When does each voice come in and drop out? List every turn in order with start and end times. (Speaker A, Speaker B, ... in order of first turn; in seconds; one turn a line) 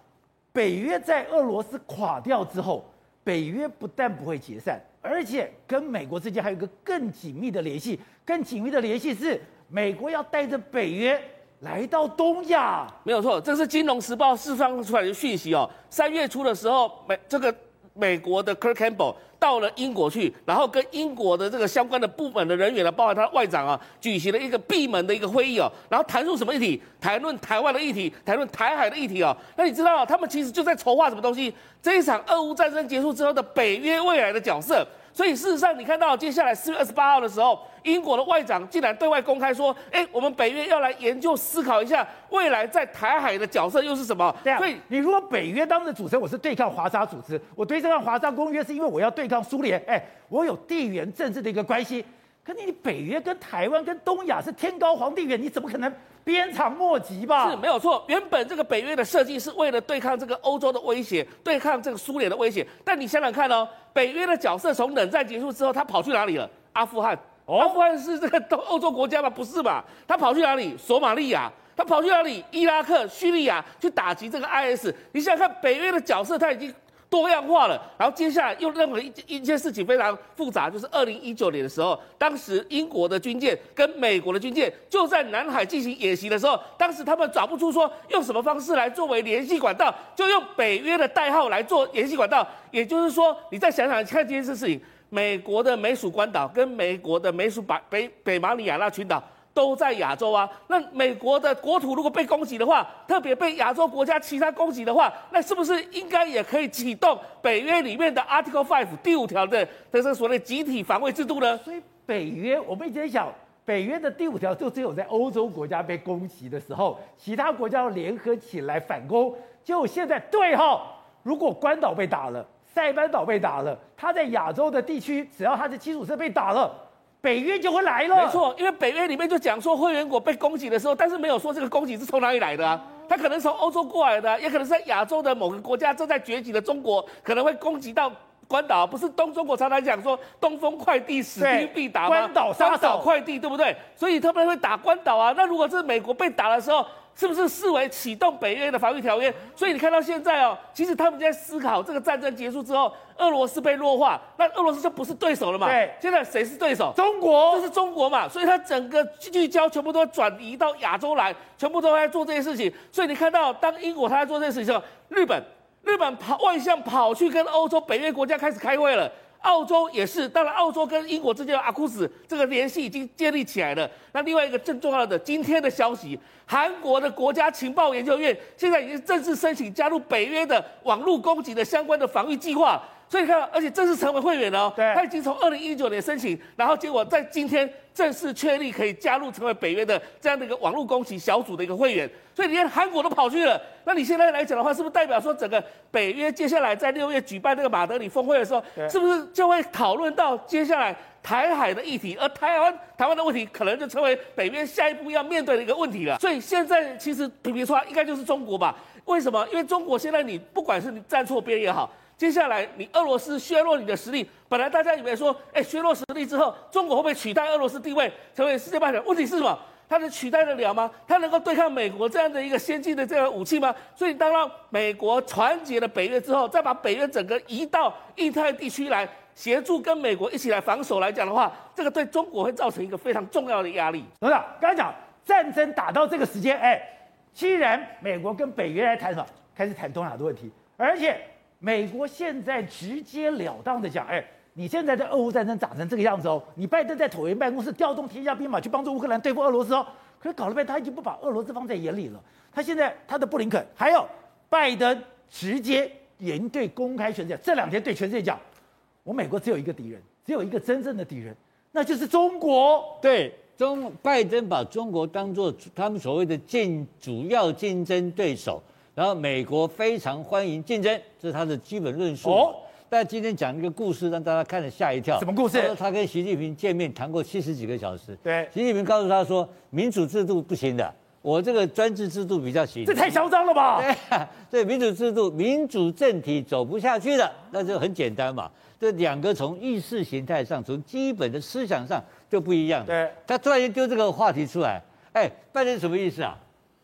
Speaker A: 0.5-13.0
Speaker B: 13.1-44.8
Speaker A: 44.4-57.6
Speaker B: 57.4-111.6
Speaker A: 67.5-67.8
Speaker A: 111.5-128.4
Speaker B: 128.1-157.0
Speaker A: 141.4-143.1
Speaker A: 155.6-156.0
Speaker A: 156.9-157.7
Speaker B: 157.5-234.1
Speaker A: 184.8-185.0
Speaker A: 234.2-258.4
Speaker A: 259.1-263.0
Speaker C: 263.0-283.2
Speaker A: 272.2-272.6
Speaker A: 275.2-275.8
Speaker A: 278.2-278.5
Speaker A: 282.9-283.9
Speaker C: 283.8-296.4
Speaker A: 292.9-293.2